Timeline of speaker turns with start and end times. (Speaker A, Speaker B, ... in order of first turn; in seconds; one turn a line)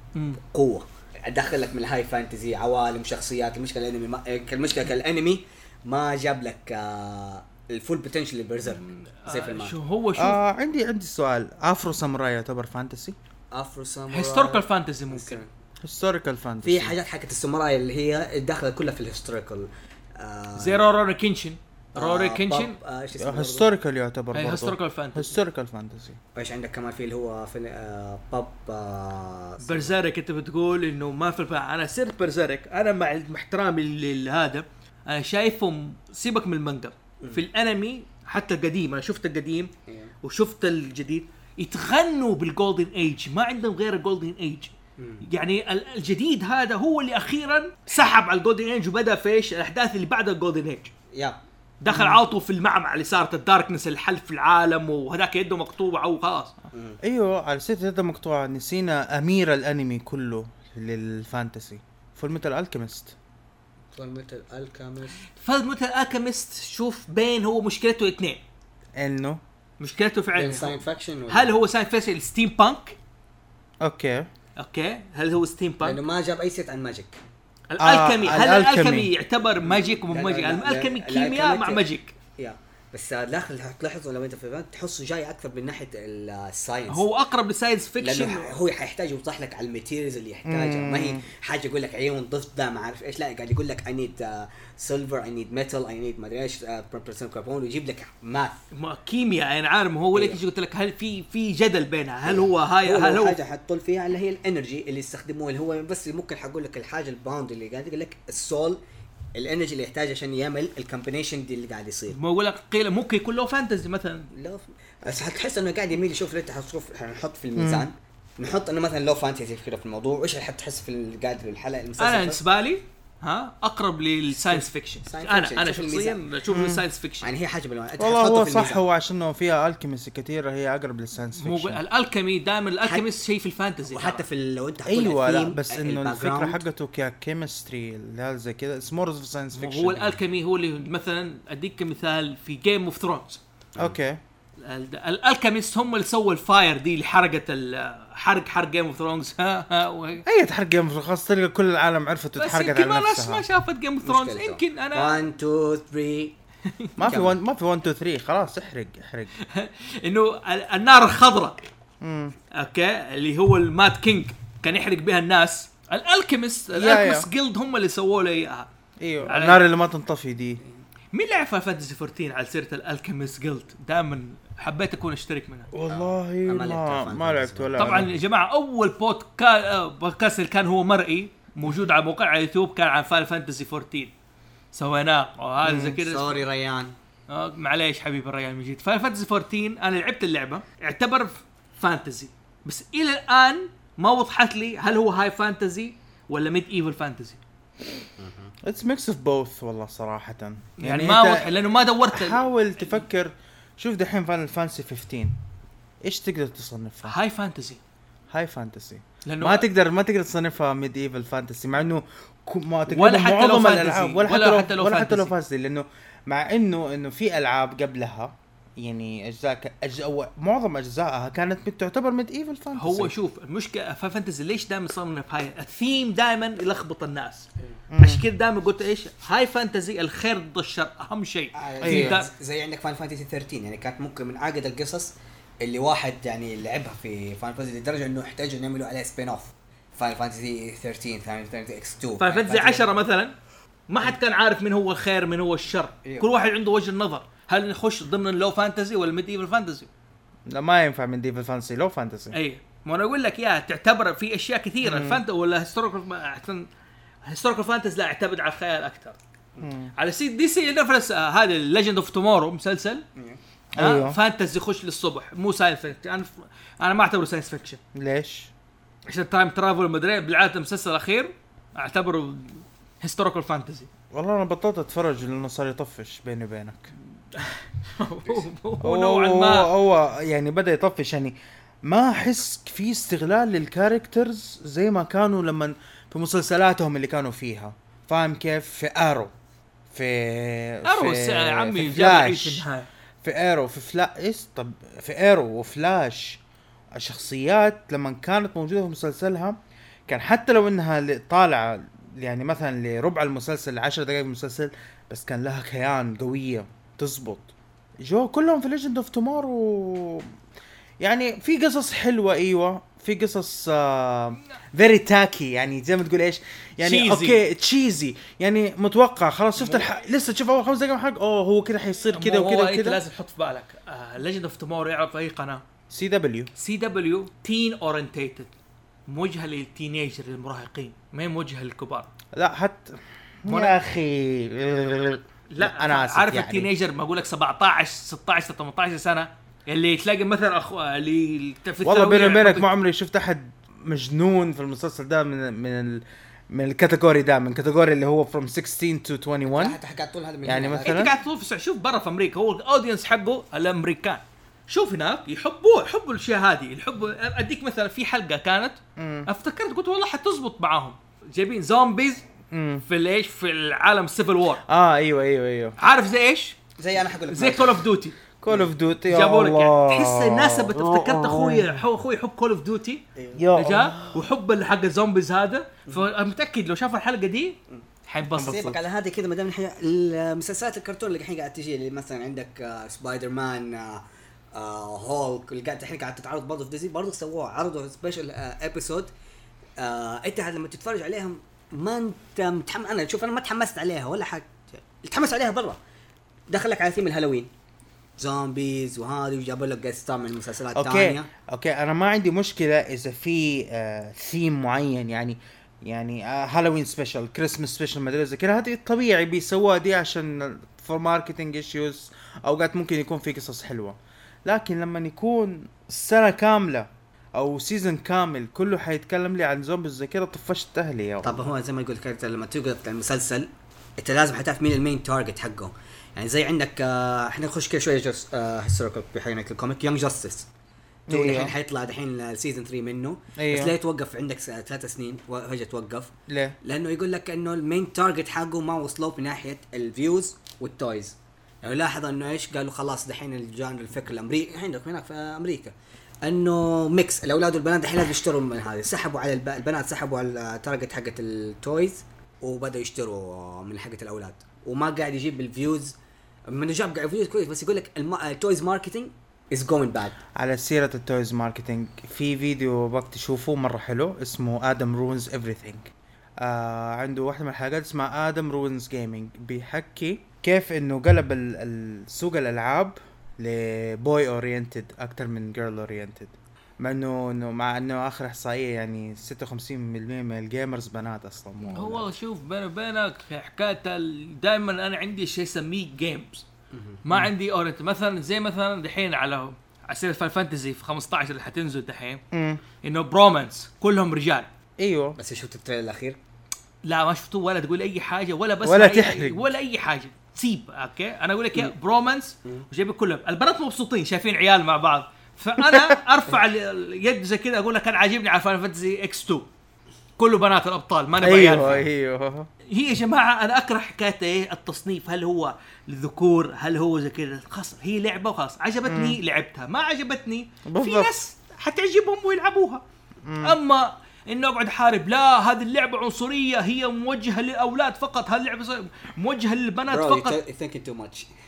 Speaker A: 0.1-0.4
Speaker B: 0.4-9.8
Speaker A: 8.7-10.4
Speaker C: 10.2-13.2
Speaker B: 13.5-15.5
Speaker A: 14.1-15.4
Speaker C: 15.8-16.9
Speaker B: 16.6-20.9
Speaker A: 20.6-22.8
Speaker B: 21.9-23.7
Speaker C: 23.2-26.2
Speaker A: 24.3-25.3
Speaker B: 26.3-29.9
Speaker A: 29.6-39.7
Speaker B: 39.9-40.1
Speaker A: 40.2-50.9
Speaker B: 45.0-45.2
Speaker B: 51.1-51.4
Speaker A: 51.8-56.5
Speaker C: 51.9-52.2
Speaker B: 56.7-57.0
Speaker C: 57.0-63.1
Speaker B: 63.9-65.2
Speaker A: 65.3-68.4
Speaker C: 69.0-69.4
Speaker A: 69.8-70.8
Speaker B: 70.3-71.5
Speaker A: 71.3-73.0
Speaker C: 73.8-74.3
Speaker A: 74.6-76.0
Speaker B: 75.8-77.2
Speaker A: 77.7-82.1
Speaker C: 77.8-79.1
Speaker B: 79.6-81.8
Speaker B: 82.4-87.1
Speaker A: 86.9-88.5
Speaker B: 88.0-98.6
Speaker C: 90.5-91.2
Speaker A: 98.7-103.4
Speaker B: 100.1-100.4
Speaker B: 102.2-108.8
Speaker B: 109.3-112.2
Speaker A: 112.1-114.3
Speaker B: 114.3-122.4
Speaker C: 117.5-117.9
Speaker A: 122.0-127.3
Speaker B: 124.3-126.2
Speaker C: 126.5-126.8
Speaker B: 127.2-128.8
Speaker C: 128.0-131.8
Speaker A: 131.3-134.2
Speaker B: 132.8-133.2
Speaker B: 133.8-136.6
Speaker C: 134.8-140.2
Speaker A: 139.5-143.4
Speaker C: 143.8-144.2
Speaker A: 144.6-150.2
Speaker C: 150.2-153.4
Speaker A: 152.4-155.2
Speaker B: 154.0-156.3
Speaker A: 156.7-157.0
Speaker C: 157.0-159.3
Speaker B: 157.0-157.3
Speaker A: 159.4-161.7
Speaker C: 162.0-162.3
Speaker A: 162.5-168.7
Speaker C: 166.7-167.3
Speaker C: 169.0-170.6
Speaker A: 169.2-169.6
Speaker A: 171.1-175.7
Speaker C: 175.7-178.1
Speaker B: 175.9-178.0
Speaker A: 177.8-184.1
Speaker A: 184.7-186.4
Speaker C: 185.6-186.0
Speaker B: 186.0-186.9
Speaker A: 187.3-197.4
Speaker B: 198.2-198.5
Speaker C: 198.6-201.5
Speaker A: 200.8-202.9
Speaker C: 202.1-205.4
Speaker C: 206.0-207.2
Speaker A: 207.1-207.8
Speaker C: 208.3-223.1
Speaker A: 209.2-209.7
Speaker A: 212.9-215.3
Speaker A: 222.7-232.3
Speaker C: 227.9-228.2
Speaker B: 231.6-242.9
Speaker C: 231.8-232.2
Speaker A: 242.2-243.3
Speaker A: 243.9-249.9
Speaker C: 250.5-252.3
Speaker A: 252.3-256.7
Speaker C: 254.8-255.2
Speaker A: 257.2-259.1
Speaker C: 259.6-259.9
Speaker A: 259.9-263.0
Speaker C: 263.8-264.2
Speaker A: 263.8-267.8
Speaker C: 267.9-268.5
Speaker A: 269.1-273.9
Speaker C: 274.1-276.9
Speaker A: 277.4-279.7
Speaker C: 278.8-289.3
Speaker C: 289.9-292.6
Speaker A: 290.8-292.9
Speaker C: 293.2-296.4
Speaker C: 296.9-310.3
Speaker C: 311.0-323.0
Speaker A: 316.8-317.4
Speaker A: 319.6-319.9
Speaker A: 322.1-325.6
Speaker C: 325.9-326.5
Speaker A: 326.6-328.5
Speaker A: 329.1-332.1
Speaker C: 332.3-336.7
Speaker A: 333.5-333.8
Speaker A: 335.5-342.7
Speaker C: 341.8-349.8
Speaker B: 349.4-351.1
Speaker C: 350.4-351.1
Speaker A: 350.8-362.2
Speaker C: 359.0-359.3
Speaker C: 362.5-362.8
Speaker A: 362.9-364.6
Speaker C: 364.7-365.8
Speaker A: 365.8-366.6
Speaker B: 366.8-367.9
Speaker A: 367.3-368.2
Speaker C: 368.4-371.8
Speaker A: 369.1-373.0
Speaker B: 373.1-373.4
Speaker C: 373.3-374.2
Speaker A: 373.5-378.6
Speaker C: 378.3-378.8
Speaker B: 378.4-389.1
Speaker B: 389.8-395.8
Speaker B: 396.5-397.5
Speaker B: 398.2-401.3
Speaker C: 400.7-421.4
Speaker B: 421.2-430.5
Speaker C: 431.1-431.5
Speaker B: 431.1-456.0
Speaker C: 433.4-433.7
Speaker C: 436.3-436.6
Speaker B: 456.5-460.1
Speaker C: 460.4-482.1
Speaker A: 481.7-486.4
Speaker B: 486.7-487.0
Speaker A: 487.0-492.2
Speaker C: 492.3-492.6
Speaker A: 492.8-494.5
Speaker C: 494.8-495.2
Speaker B: 495.1-496.2
Speaker A: 496.8-509.5
Speaker C: 498.6-499.4
Speaker C: 505.6-506.0
Speaker A: 510.2-511.9
Speaker C: 511.2-512.5
Speaker A: 512.7-522.8
Speaker C: 518.9-519.2
Speaker C: 520.6-521.1
Speaker C: 523.2-523.6
Speaker A: 523.4-530.4
Speaker B: 529.9-531.3